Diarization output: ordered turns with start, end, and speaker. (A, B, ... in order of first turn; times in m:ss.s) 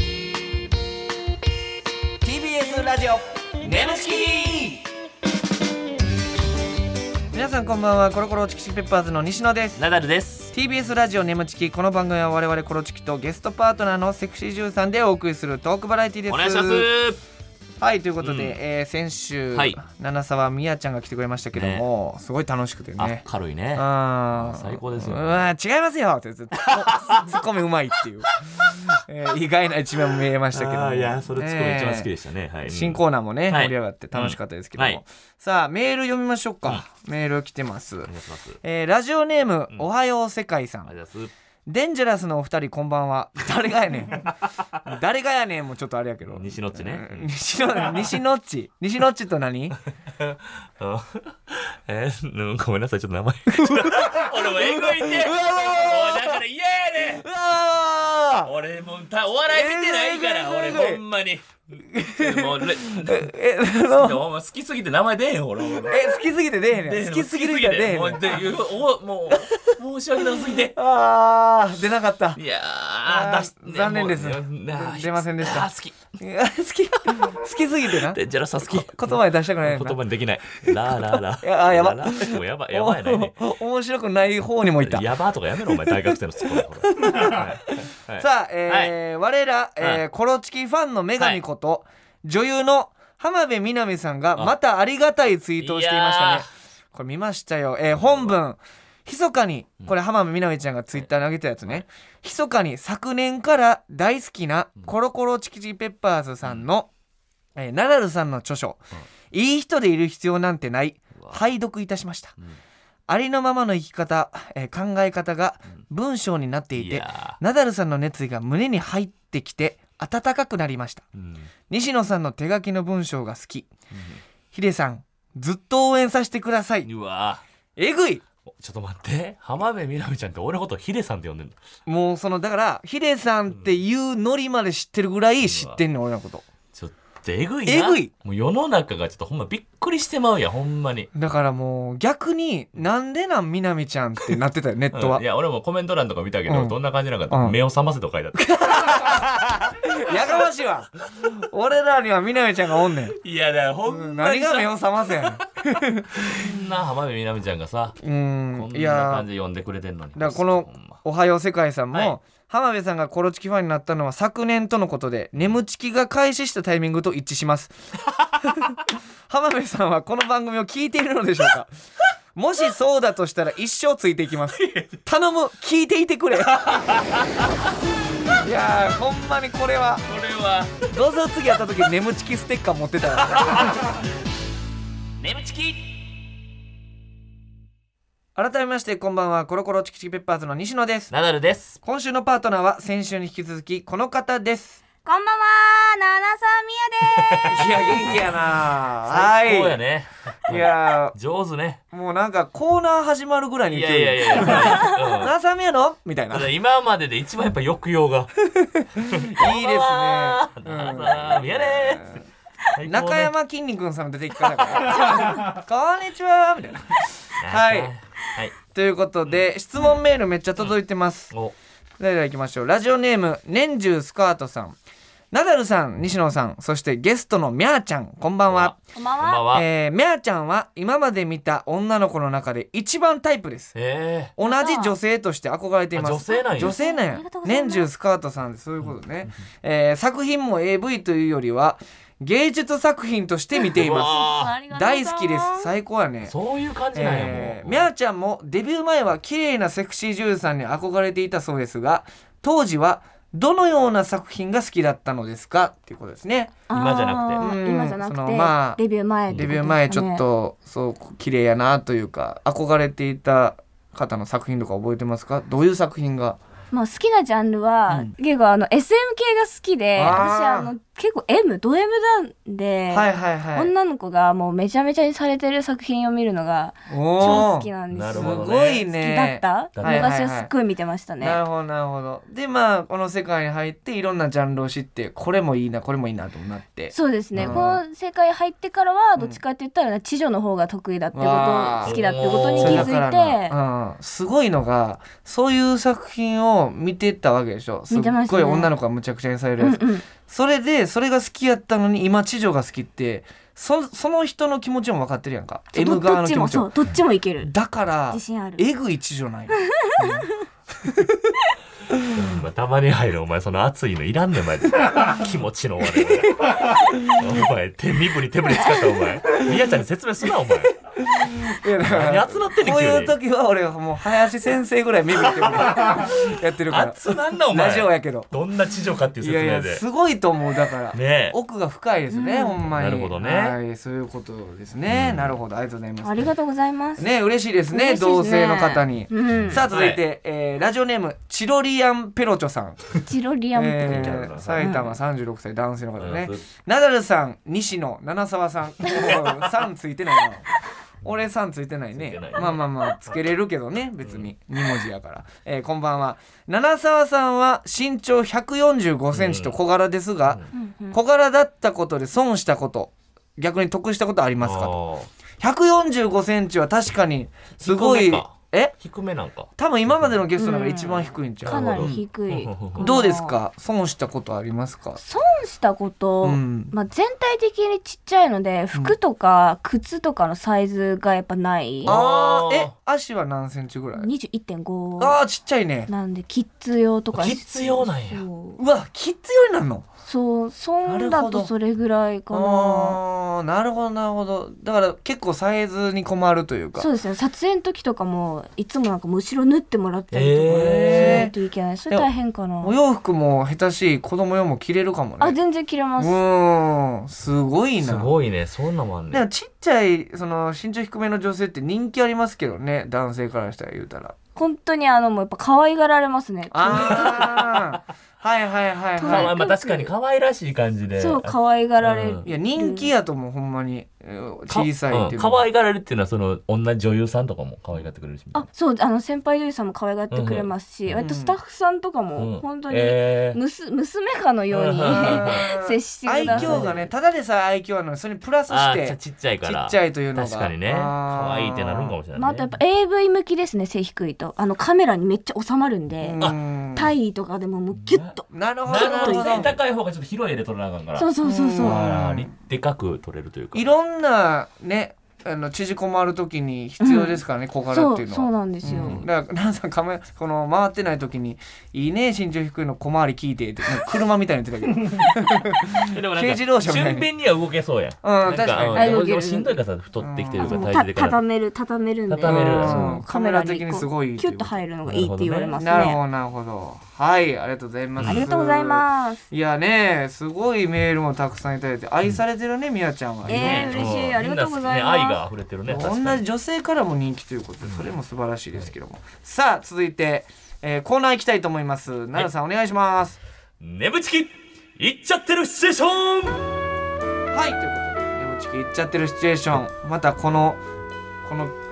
0:02.2-0:04.8 A
0:07.3-0:09.8 A
0:09.8-0:10.5 B
0:10.5-0:16.9 A
0:16.3-0:17.2 B
0:17.8-0:23.2 A
0:18.2-0:18.6 B
0:19.5-0:19.8 B
0:21.5-0:21.8 B
0:23.0-0:25.4 B
0:23.7-0:32.1 A
0:26.6-0:27.4 B
0:30.5-0:35.0 B
0:32.7-0:40.9 A
0:38.0-0:38.6 B
0:40.8-0:41.3 B
0:41.6-0:49.8 A
0:46.2-0:47.3 B
0:50.1-0:57.3 B
0:53.5-0:56.4 A
0:57.2-0:58.5 A
0:58.4-1:03.3 B
0:59.5-1:01.0 A
1:01.9-1:04.2 A
1:03.8-1:06.2 B
1:05.8-1:08.4 A
1:06.7-1:10.8 B
1:10.6-1:12.4 A
1:12.4-1:16.0 B
1:13.0-1:20.0 A
1:18.0-1:23.4 B
1:20.6-1:46.9 A
1:24.8-1:28.9 B
1:35.6-1:36.5 B
1:38.0-1:38.3 B
1:47.6-1:52.4 A
1:53.1-2:01.0 A
1:56.7-1:57.4 B
2:01.2-2:01.5 B
2:01.7-2:03.7 A
2:03.9-2:04.2 B
2:04.5-2:06.9 A
2:06.8-2:07.4 B
2:07.8-2:08.2 A
2:08.4-2:11.6 B
2:11.8-2:16.4 A
2:15.4-2:15.8 B
2:16.7-2:21.1 B
2:17.6-2:18.1 A
2:21.1-2:25.2 A
2:24.9-2:29.3 B
2:26.5-2:26.8 A
2:27.3-2:27.6 A
2:28.4-2:33.2 A
2:33.1-2:35.4 B
2:33.8-2:36.6 A
2:36.1-2:38.0 B
2:38.0-2:39.2 A
2:38.5-2:41.0 B
2:40.2-2:47.8 A
2:48.4-2:51.7 A
2:52.3-2:57.0 A
2:54.5-2:55.0 B
2:56.5-2:57.5 B
2:58.3-3:00.0 A
3:00.0-3:00.8 B
3:00.8-3:03.8 A
3:03.2-3:03.8 B
3:05.2-3:06.0 B
3:08.4-3:11.1 A
3:11.1-3:11.8 B
3:11.8-3:14.8 A
3:15.0-3:17.7 C
3:17.2-3:18.3 B
3:17.5-3:19.8 A
3:19.0-3:21.8 B
3:20.5-3:21.2 A
3:21.9-3:26.5 A
3:23.7-3:25.3 B
3:26.3-3:28.3 B
3:28.4-3:32.2 A
3:29.1-3:32.2 B
3:32.7-3:33.3 B
3:32.8-3:37.9 A
3:34.8-3:35.2 B
3:37.4-3:38.5 B
3:38.7-3:41.3 A
3:42.0-3:44.8 A
3:45.3-3:48.8 A
3:48.5-3:49.6 B
3:48.9-3:49.4 C
3:49.5-3:53.7 A
3:53.7-3:54.3 B
3:54.4-4:06.4 A
3:54.4-3:55.0 C
3:55.9-3:56.7 B
3:56.3-3:57.9 C
4:03.7-4:04.6 B
4:03.8-4:05.7 C
4:06.2-4:07.9 B
4:06.9-4:16.6 A
4:16.7-4:20.2 C
4:16.7-4:17.4 B
4:17.4-4:26.4 A
4:26.7-4:41.4 C
4:30.0-4:30.7 A
4:32.9-4:33.7 A
4:36.9-4:40.5 A
4:37.3-4:38.8 B
4:39.7-4:40.1 B
4:41.2-4:47.8 A
4:46.9-4:53.5 C
4:47.4-4:47.7 B
4:51.1-5:06.7 A
4:51.8-4:52.9 B
4:57.9-4:58.7 C
4:59.6-5:00.0 C
5:05.7-5:07.5 C
5:07.4-5:11.3 A
5:08.1-5:08.6 C
5:09.7-5:10.4 C
5:11.9-5:12.2 A
5:12.1-5:20.7 B
5:16.0-5:17.2 A
5:20.9-5:28.3 A
5:21.8-5:23.1 B
5:26.7-5:29.8 B
5:29.2-5:36.3 A
5:30.9-5:31.4 B
5:32.1-5:32.6 C
5:32.7-5:33.6 B
5:34.9-5:35.4 B
5:36.0-5:37.0 C
5:37.0-5:42.8 A
5:37.7-5:39.6 C
5:39.3-5:40.0 B
5:43.0-5:45.0 C
5:43.5-5:50.4 A
5:43.8-5:44.6 B
5:46.0-5:46.4 B
5:51.0-6:04.8 A
5:51.9-5:53.1 B
5:54.0-5:54.3 B
5:59.1-5:59.6 B
6:00.2-6:00.5 B
6:00.5-6:01.0 C
6:04.4-6:05.1 B
6:05.4-6:08.8 A
6:07.6-6:10.2 B
6:09.6-6:12.0 A
6:10.4-6:13.4 C
6:11.4-6:12.9 B
6:12.8-6:15.0 A
6:15.0-6:21.9 C
6:16.2-6:16.7 A
6:21.8-6:22.7 B
6:21.8-6:24.1 A
6:24.0-6:25.2 C
6:25.0-6:25.9 A
6:25.9-6:28.6 C
6:27.1-6:28.2 B
6:28.6-6:29.8 A
6:30.0-6:33.0 C
6:30.8-6:31.5 A
6:32.3-6:36.9 A
6:36.8-6:42.7 C
6:40.1-6:41.3 B
6:40.5-6:41.3 A
6:42.6-6:45.4 A
6:45.2-6:46.2 C
6:46.0-6:48.1 A
6:47.8-6:49.2 B
6:49.1-6:54.1 A
6:54.4-6:57.4 C
6:56.5-6:59.3 A
6:56.7-6:57.6 B
6:59.0-6:59.9 C
6:59.0-7:02.3 B
7:01.0-7:02.9 C
7:02.2-7:05.4 A
7:04.5-7:08.4 B
7:08.3-7:16.8 C
7:10.1-7:11.0 B
7:11.0-7:11.4 A
7:12.2-7:13.4 B
7:14.5-7:15.4 B
7:14.9-7:22.0 A
7:16.2-7:16.8 B
7:18.5-7:22.5 B
7:22.1-7:29.4 C
7:26.0-7:26.9 A
7:27.7-7:28.2 B
7:28.3-7:29.5 A
7:28.7-7:33.7 B
7:31.0-7:31.8 C
7:31.2-7:32.3 A
7:33.5-7:47.1 A
7:36.8-7:37.2 C
7:37.7-7:39.0 C
7:45.7-7:51.2 B
7:48.0-7:49.0 A
7:48.7-7:49.5 C
7:50.0-7:50.6 A
7:50.4-7:56.0 C
7:52.1-7:53.0 B
7:52.2-7:54.6 A
7:54.8-7:55.6 B
7:55.6-8:03.9 A
7:58.0-7:58.2 B
7:58.1-7:59.2 C
8:03.2-8:06.2 B
8:03.3-8:05.2 C
8:05.7-8:13.2 A
8:07.6-8:07.9 B
8:13.6-8:16.5 B
8:17.3-8:20.6 A
8:21.2-8:21.5 A